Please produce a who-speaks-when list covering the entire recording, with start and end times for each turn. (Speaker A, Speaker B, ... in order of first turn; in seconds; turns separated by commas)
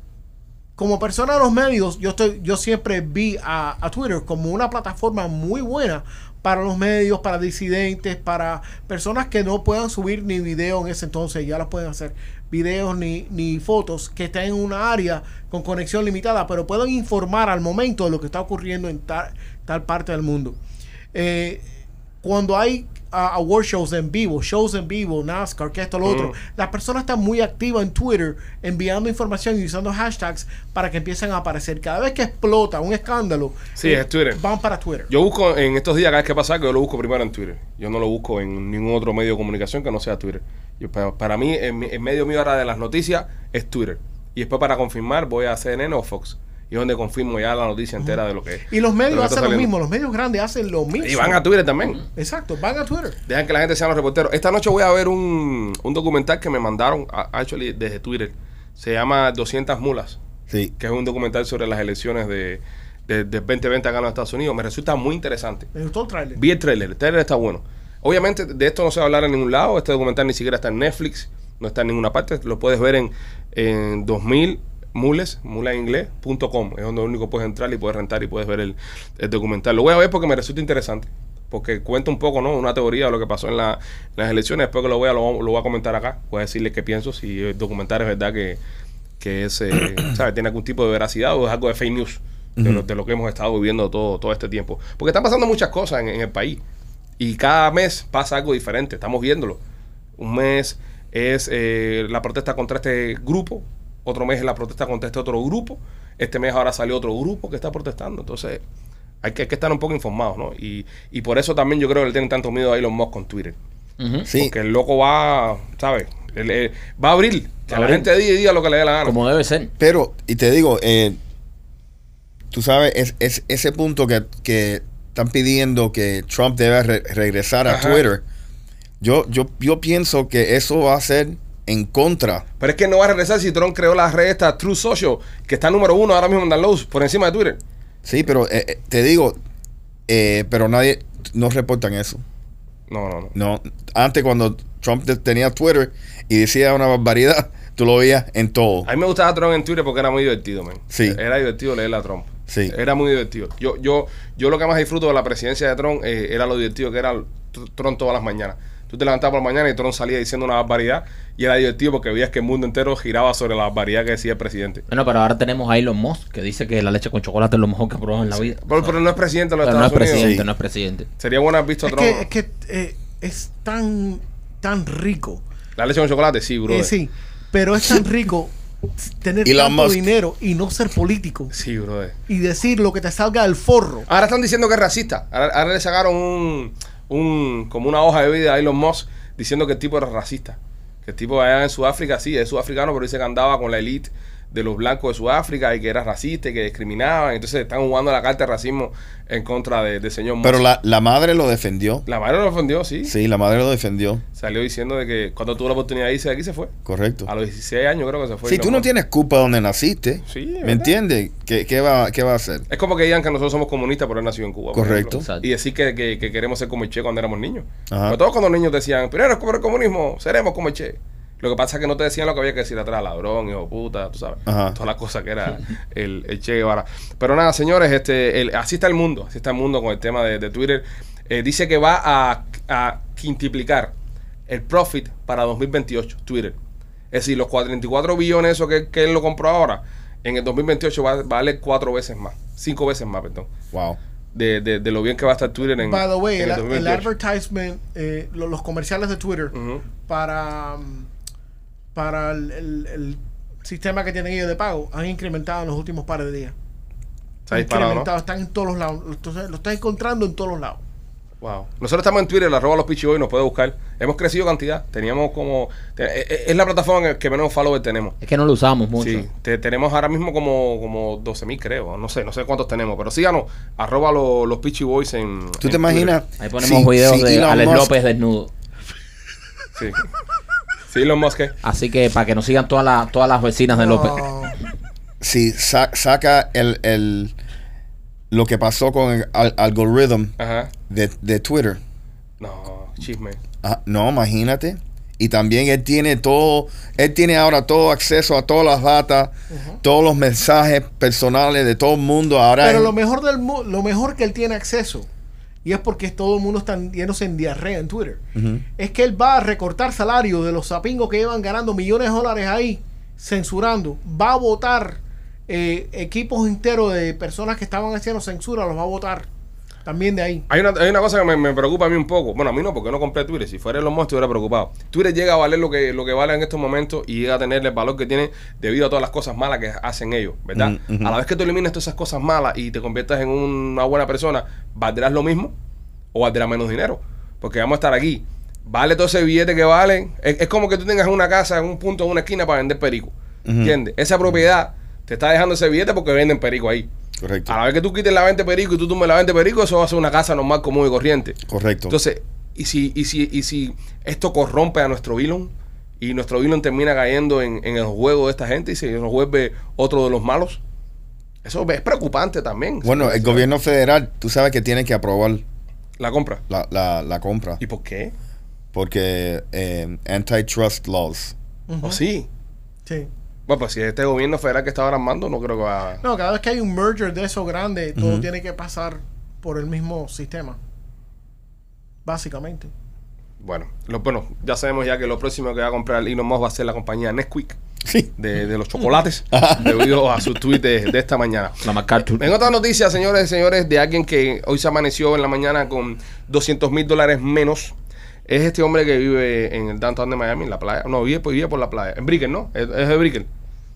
Speaker A: 0.8-20.6, Speaker A: 21.1-21.6, Speaker A: 22.2-35.1, Speaker B: 26.0-26.3, Speaker B: 33.8-34.4, Speaker B: 35.1-49.7, Speaker A: 48.7-51.4, Speaker B: 51.0-52.0, Speaker A: 52.1-53.1, Speaker B: 53.3-60.2, Speaker B: 60.8-65.7, Speaker A: 65.7-66.4, Speaker B: 66.3-88.6, Speaker B: 89.2-96.6, Speaker C: 92.6-92.8, Speaker B: 97.2-99.6, Speaker B: 100.2-108.6, Speaker B: 109.2-113.6, Speaker D: 114.0-114.3, Speaker C: 114.3-114.5, Speaker B: 114.3-119.1, Speaker D: 117.7-118.1, Speaker D: 119.0-119.7, Speaker C: 119.8-121.2, Speaker C: 122.5-128.2, Speaker B: 127.7-128.0, Speaker C: 129.0-132.4, Speaker B: 132.6-137.6, Speaker C: 138.0-139.4, Speaker C: 140.1-142.2, Speaker B: 142.9-143.3, Speaker C: 143.3-148.9, Speaker B: 148.8-164.8, Speaker C: 150.9-151.2, Speaker C: 152.5-152.8, Speaker D: 164.9-168.9, Speaker B: 168.3-170.3, Speaker D: 169.6-171.1, Speaker C: 170.1-170.4, Speaker B: 171.2-172.2, Speaker A: 171.8-175.4, Speaker B: 175.8-176.9, Speaker A: 176.7-181.5, Speaker C: 179.4-180.0, Speaker B: 181.5-182.1, Speaker A: 182.3-184.1, Speaker B: 184.1-200.6, Speaker C: 200.4-202.0, Speaker B: 202.1-203.1, Speaker C: 203.0-204.2, Speaker B: 204.4-206.7, Speaker C: 206.8-207.3, Speaker B: 207.2-208.9, Speaker C: 208.4-212.6, Speaker B: 210.3-210.9, Speaker B: 212.7-233.9, Speaker C: 214.7-215.2, Speaker D: 215.1-215.5, Speaker C: 217.9-218.2, Speaker C: 224.5-224.8, Speaker B: 234.5-236.5, Speaker B: 237.1-243.5, Speaker C: 243.7-244.0, Speaker B: 244.3-247.1, Speaker A: 245.8-251.1, Speaker B: 249.5-249.8, Speaker A: 251.9-256.5, Speaker B: 257.5-258.1, Speaker A: 257.5-260.8, Speaker B: 261.4-268.1, Speaker D: 268.2-269.3, Speaker B: 269.0-276.1, Speaker C: 275.6-277.9, Speaker D: 276.4-278.5, Speaker B: 279.7-280.0, Speaker B: 280.9-281.5, Speaker D: 281.6-284.2, Speaker A: 283.7-284.5, Speaker C: 285.2-287.3, Speaker C: 288.3-290.3, Speaker B: 290.4-290.7, Speaker C: 290.9-291.8, Speaker B: 292.4-293.4, Speaker C: 293.6-302.9, Speaker A: 299.5-299.8, Speaker A: 302.6-305.1, Speaker A: 305.6-308.2, Speaker C: 308.3-308.6, Speaker A: 308.8-319.2, Speaker A: 319.8-320.4, Speaker B: 320.5-335.5, Speaker C: 330.5-331.1, Speaker B: 336.1-346.9, Speaker C: 343.4-343.8, Speaker C: 347.2-347.6, Speaker B: 347.5-351.4, Speaker C: 351.5-351.9, Speaker B: 351.9-360.6, Speaker B: 361.4-363.4, Speaker C: 362.8-365.4, Speaker B: 366.0-366.4, Speaker C: 366.5-367.6, Speaker B: 367.6-368.1, Speaker C: 368.7-371.3, Speaker A: 371.7-372.0, Speaker B: 371.8-372.3, Speaker B: 373.5-376.0, Speaker A: 376.0-380.6, Speaker C: 377.9-378.3, Speaker A: 382.0-382.7, Speaker B: 383.4-387.6, Speaker C: 387.9-388.1, Speaker B: 388.2-391.6, Speaker C: 389.3-389.9, Speaker D: 391.6-392.3, Speaker B: 392.1-397.7, Speaker B: 398.3-403.3